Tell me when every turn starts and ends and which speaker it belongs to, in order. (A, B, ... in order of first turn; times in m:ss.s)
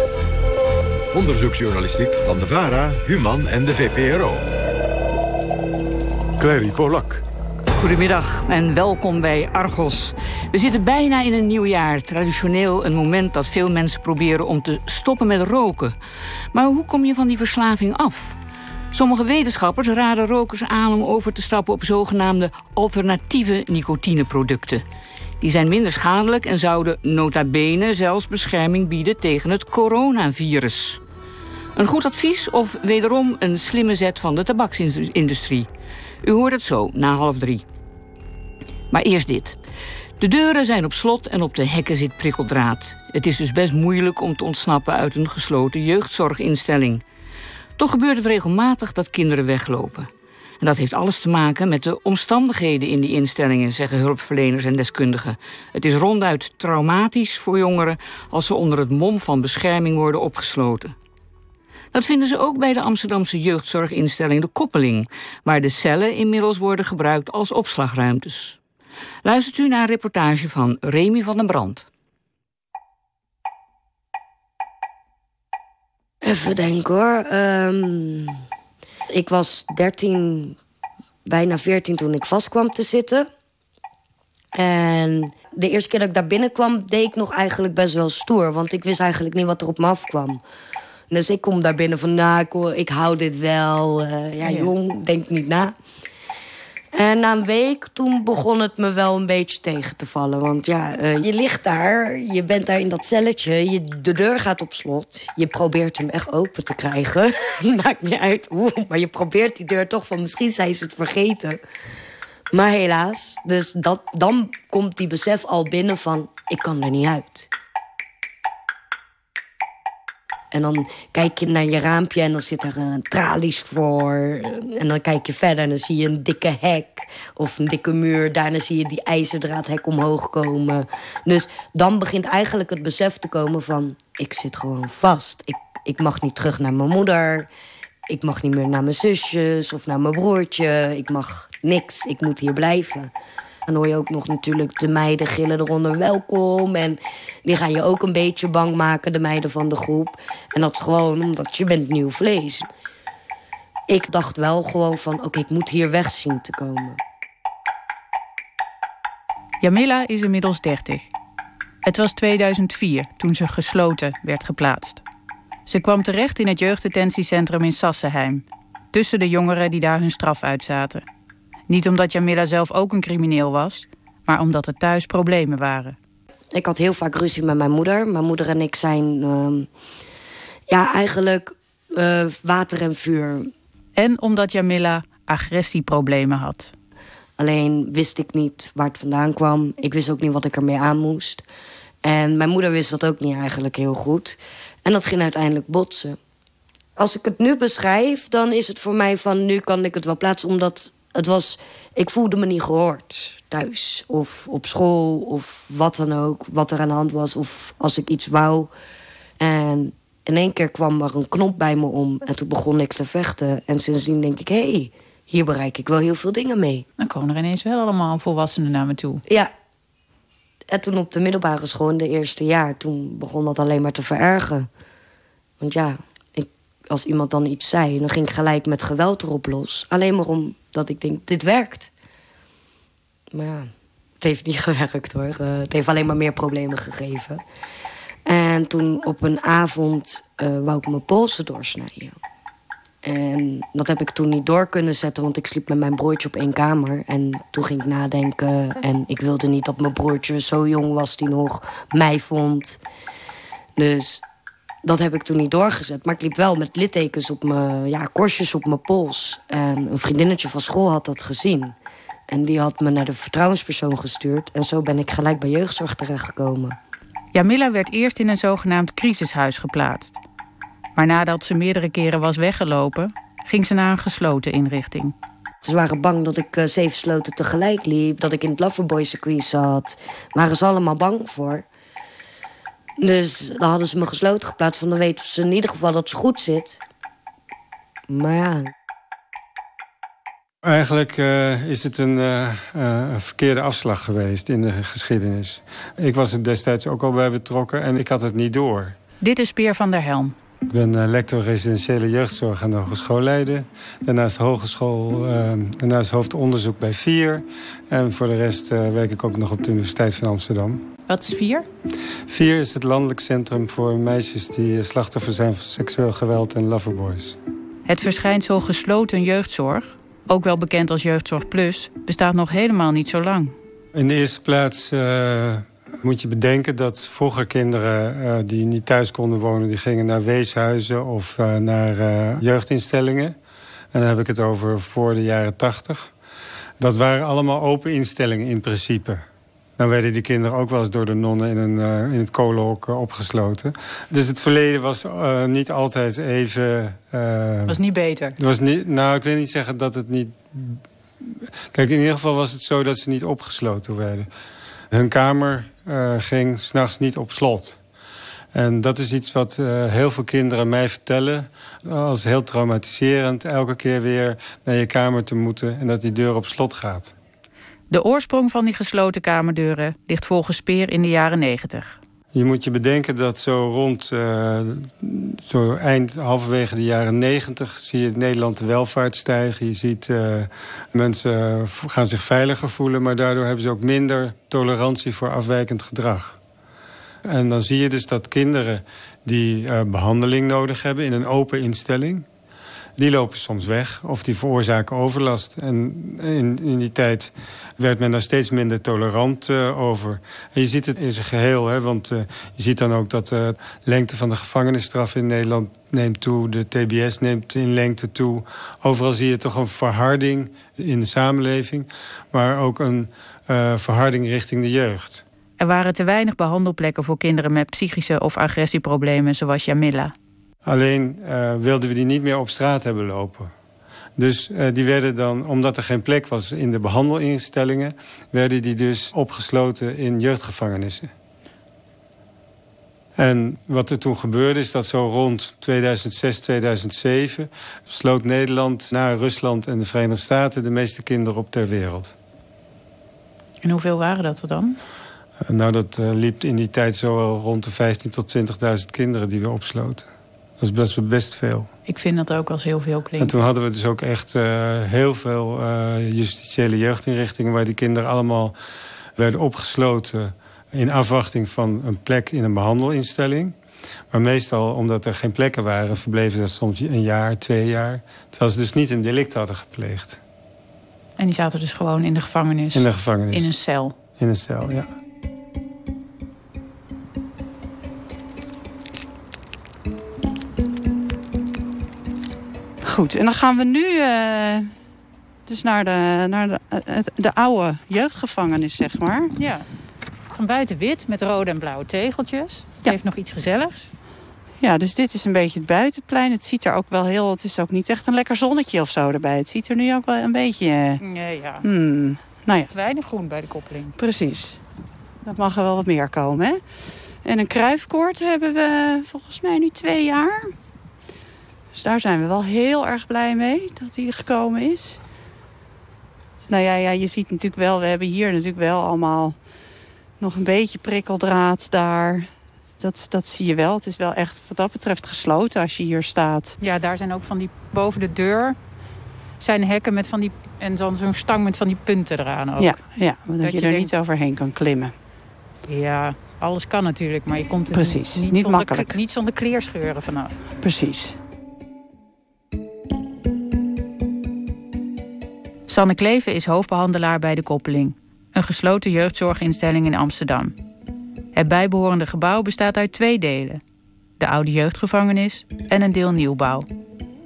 0:01.1-0:04.4 A
0:06.4-0:07.2 A
0:07.8-0:15.9 B
0:16.5-0:18.4 B
0:18.9-0:24.8 B
0:25.4-0:31.0 B
0:31.7-0:35.7 B
0:36.2-0:37.6 B
0:38.9-0:39.6 B
0:40.2-0:47.0 B
0:47.8-0:50.1 B
0:50.6-1:00.9 B
1:01.9-1:08.6 B
1:09.2-1:11.9 B
1:16.2-1:18.4 C
1:19.1-1:20.6 C
1:21.2-1:23.3 C
1:24.5-1:30.4 C
1:31.1-1:35.7 C
1:34.4-1:34.7 D
1:36.9-1:51.6 C
1:52.5-1:57.5 C
2:00.5-2:17.5 C
2:18.1-2:23.1 C
2:23.7-2:32.7 C
2:33.9-2:37.0 C
2:39.6-2:41.1 D
2:41.8-2:45.0 D
2:45.6-2:51.0 D
2:51.7-2:56.0 D
2:56.5-2:59.7 C
3:00.7-3:03.5 C
3:04.0-3:06.7 D
3:07.4-3:11.4 C
3:12.0-3:16.2 C
3:17.0-3:28.7 C
3:29.4-3:36.8 C
3:37.0-3:39.2 D
3:40.7-3:44.7 C
3:45.6-3:51.9 C
3:53.3-3:57.4 C
3:58.2-4:02.2 C
4:03.0-4:12.8 C
4:13.8-4:14.2 C
4:14.8-4:21.8 C
4:22.3-4:26.8 C
4:27.3-4:30.2 D
4:31.0-4:35.1 D
4:35.6-4:41.6 C
4:43.0-4:46.8 C
4:48.1-4:48.7 C
4:50.6-4:59.0 E
4:59.2-5:00.3 D
5:00.7-5:10.8 E
5:11.1-5:11.7 D
5:12.3-5:17.4 E
5:17.9-5:23.5 D
5:23.9-5:33.4 E
5:33.9-5:36.1 E
5:36.8-5:39.2 E
5:39.8-5:47.8 E
5:47.7-5:48.4 D
5:48.4-5:54.3 E
5:54.9-5:57.8 E
5:58.5-6:07.1 E
6:07.9-6:12.0 D
6:12.3-6:26.4 E
6:27.2-6:32.3 E
6:33.0-6:55.2 E
6:55.6-7:00.1 D
7:00.6-7:03.5 E
7:04.2-7:11.1 E
7:13.2-7:22.1 E
7:23.6-7:24.8 D
7:25.4-7:30.1 E
7:30.6-7:31.7 E
7:31.8-7:33.3 D
7:33.2-7:38.5 E
7:39.2-7:43.6 E
7:44.1-7:50.2 E
7:51.2-7:54.0 D
7:52.7-7:53.6 E
7:54.2-7:54.9 E
8:02.8-8:04.7 F
8:05.5-8:09.3 F
8:09.4-8:09.7 D
8:10.3-8:13.9 D
8:14.6-8:21.0 F
8:21.0-8:21.7 D
8:21.6-8:22.7 F
8:22.7-8:24.0 D
8:24.0-8:24.6 F
8:25.2-8:26.6 F
8:27.2-8:30.5 F
8:31.7-8:35.0 F
8:36.4-8:39.4 F
8:40.2-8:46.6 F
8:46.6-8:48.6 D
8:49.4-8:52.8 D
8:52.6-8:54.9 F
8:53.4-8:53.9 D
8:55.7-9:00.4 D
8:57.7-8:59.0 F
9:00.6-9:01.2 F
9:05.7-9:10.5 D
9:11.3-9:13.6 D
9:14.2-9:16.6 D